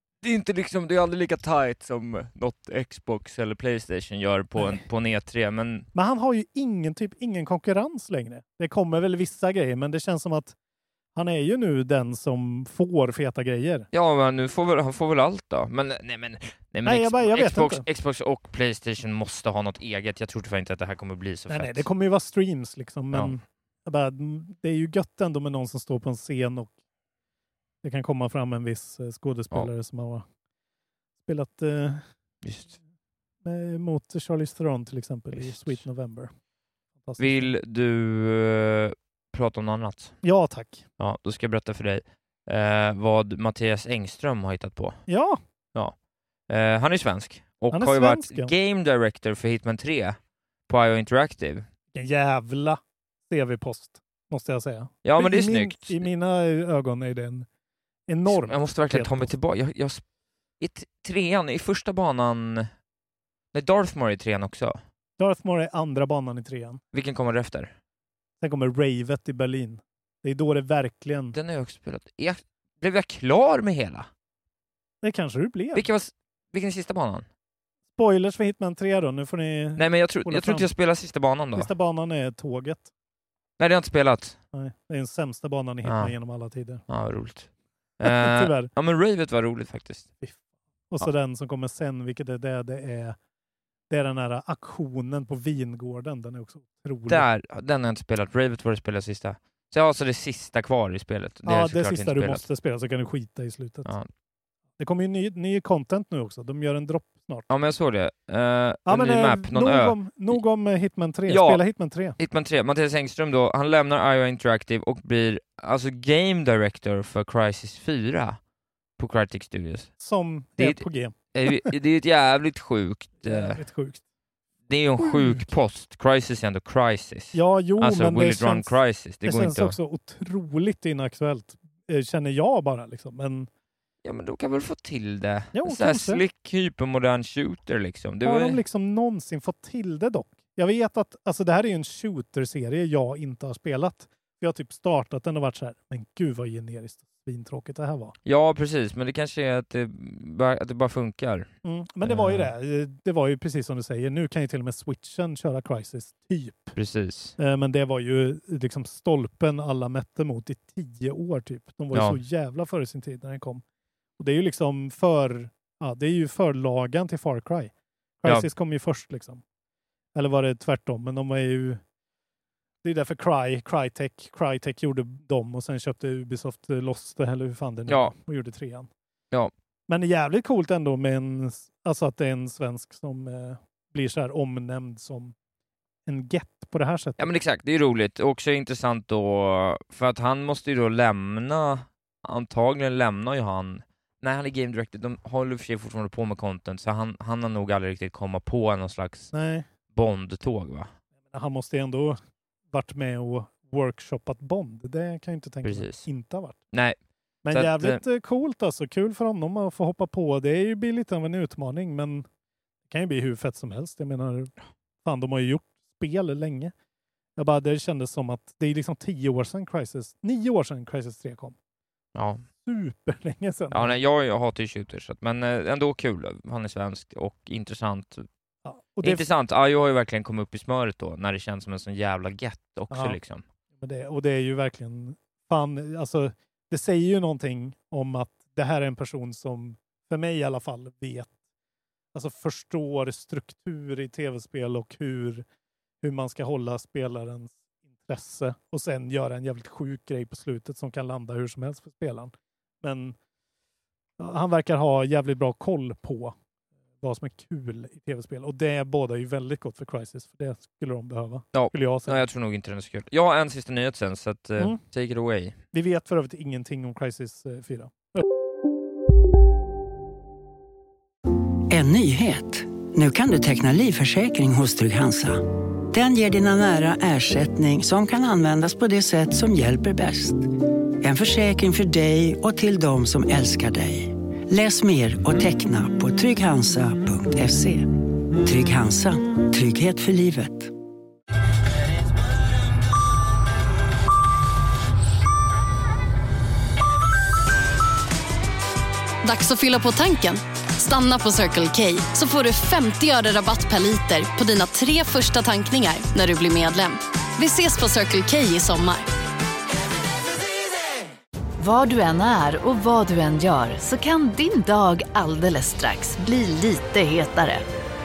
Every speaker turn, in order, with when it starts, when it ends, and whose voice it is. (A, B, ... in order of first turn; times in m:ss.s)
0:00.2-0:05.9 A
0:05.9-0:10.6 B
0:11.2-0:13.9 B
0:13.9-0:21.9 A
0:16.8-0:17.8 B
0:21.5-0:26.7 B
0:27.8-0:30.2 B
0:31.2-0:32.0 B
0:32.4-0:32.8 A
0:33.4-0:36.3 B
0:35.4-0:35.8 A
0:37.0-0:37.5 B
0:37.2-0:40.2 A
0:40.2-0:40.8 B
0:41.0-0:45.0 A
0:45.1-0:45.4 B
0:46.5-0:51.7 A
0:47.7-0:48.5 B
0:51.9-0:57.5 B
0:55.0-0:56.1 A
0:58.1-0:59.3 B
0:58.3-1:00.0 A
1:00.6-1:02.7 A
1:03.5-1:04.8 A
1:05.2-1:06.8 B
1:06.9-1:07.8 A
1:08.4-1:11.4 B
1:11.3-1:14.1 A
1:15.0-1:15.9 B
1:15.7-1:17.3 A
1:18.0-1:20.7 B
1:19.8-1:21.7 A
1:21.6-1:22.9 B
1:23.6-1:24.4 A
1:24.5-1:26.8 B
1:25.8-1:26.2 A
1:26.9-1:30.1 A
1:28.0-1:28.7 B
1:30.9-1:33.2 B
1:33.9-1:37.3 B
1:37.1-1:42.5 A
1:41.4-1:43.9 B
1:44.8-1:47.5 B
1:47.5-1:50.4 A
1:48.9-1:52.2 B
1:51.3-1:51.6 A
1:52.2-1:58.4 A
1:59.0-1:59.9 A
2:00.0-2:01.7 B
2:00.6-2:03.6 A
2:03.2-2:04.0 B
2:04.7-2:09.8 A
2:05.0-2:05.5 B
2:07.3-2:13.5 B
2:14.0-2:18.6 A
2:15.5-2:16.2 B
2:18.2-2:28.2 B
2:28.2-2:31.5 A
2:31.6-2:36.8 B
2:32.0-2:32.5 A
2:36.8-2:37.4 A
2:37.4-2:43.6 B
2:41.9-2:42.2 A
2:44.2-2:49.4 B
2:50.2-2:51.8 B
2:52.8-2:58.9 B
2:57.9-2:58.2 A
2:59.9-3:05.4 B
3:06.1-3:07.3 B
3:07.2-3:19.3 A
3:19.3-3:19.7 B
3:19.9-3:20.9 A
3:21.3-3:22.2 B
3:22.7-3:26.6 B
3:25.6-3:26.1 A
3:26.7-3:27.0 A
3:27.4-3:32.3 B
3:27.5-3:28.0 A
3:32.9-3:36.7 B
3:37.4-3:41.6 B
3:42.2-3:42.4 A
3:42.6-3:44.0 B
3:43.7-3:48.3 A
3:48.6-3:49.3 B
3:49.0-3:53.4 A
3:52.9-3:53.2 B
3:53.8-4:01.3 B
4:02.1-4:05.4 B
4:06.0-4:13.2 B
4:14.2-4:16.4 B
4:17.0-4:22.2 B
4:21.5-4:25.6 A
4:25.7-4:28.2 B
4:31.7-4:40.5 C
4:41.0-4:50.7 C
4:59.2-5:09.1 D
5:11.6-5:17.6 E